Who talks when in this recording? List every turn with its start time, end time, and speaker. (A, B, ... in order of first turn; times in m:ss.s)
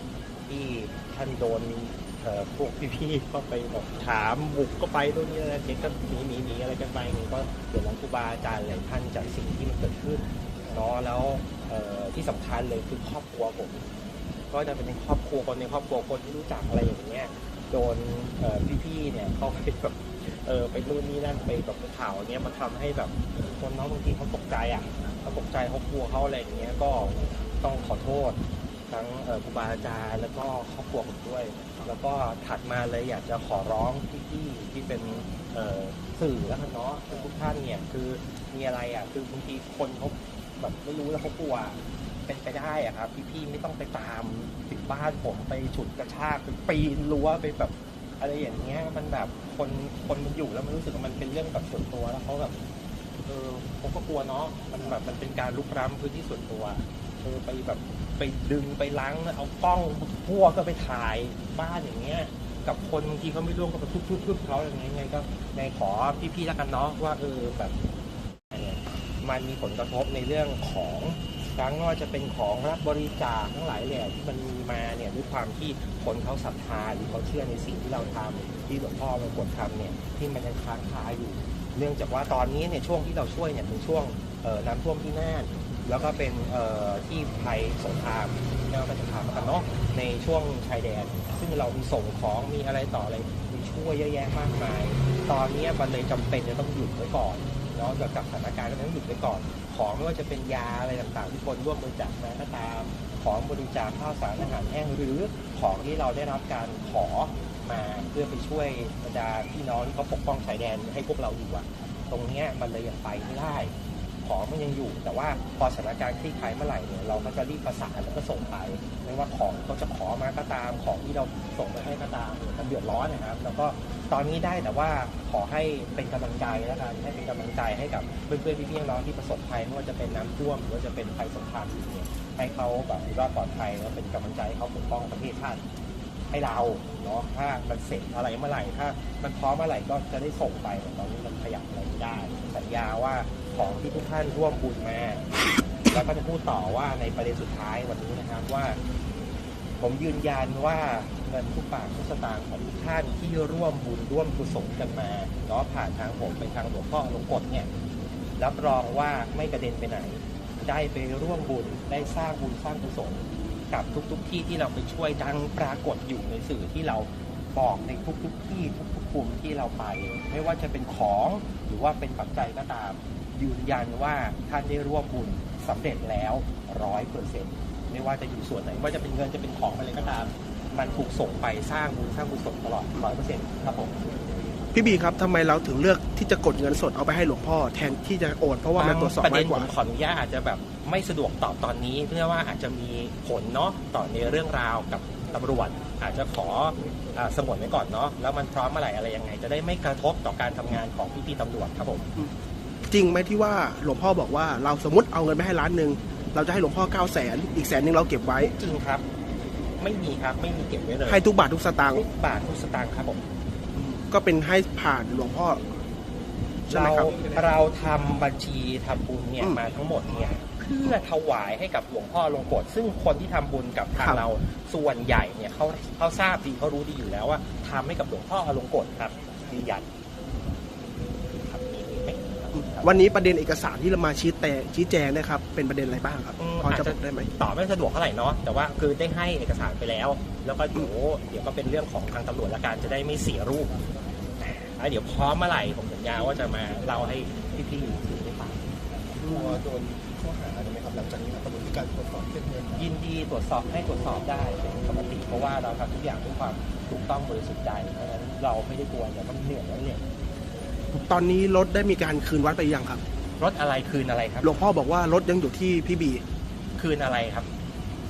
0:00.5-0:13.9 A
0:14.5-0:52.6 A
0:53.2-1:07.7 A
1:08.5-2:15.6 A
2:16.3-2:25.3 A
2:25.9-2:28.8 A
2:29.8-2:37.7 A
2:38.4-3:04.0 A
3:04.7-3:09.7 B
3:08.8-3:22.1 A
3:22.9-3:28.5 B
3:28.4-3:29.0 A
3:29.8-3:31.3 A
3:31.0-3:32.0 B
3:31.8-3:33.2 A
3:33.7-3:35.6 B
3:36.7-3:49.9 A
3:36.7-3:37.2 B
3:44.0-3:44.2 B
3:51.4-3:53.1 A
3:52.8-3:57.3 B
3:56.4-4:03.8 A
4:04.4-4:08.7 A
4:09.2-4:12.8 C
4:09.2-4:09.5 B
4:12.7-4:20.0 A
4:20.9-4:23.0 B
4:23.4-4:24.6 A
4:24.4-4:26.2 B
4:26.8-4:27.5 A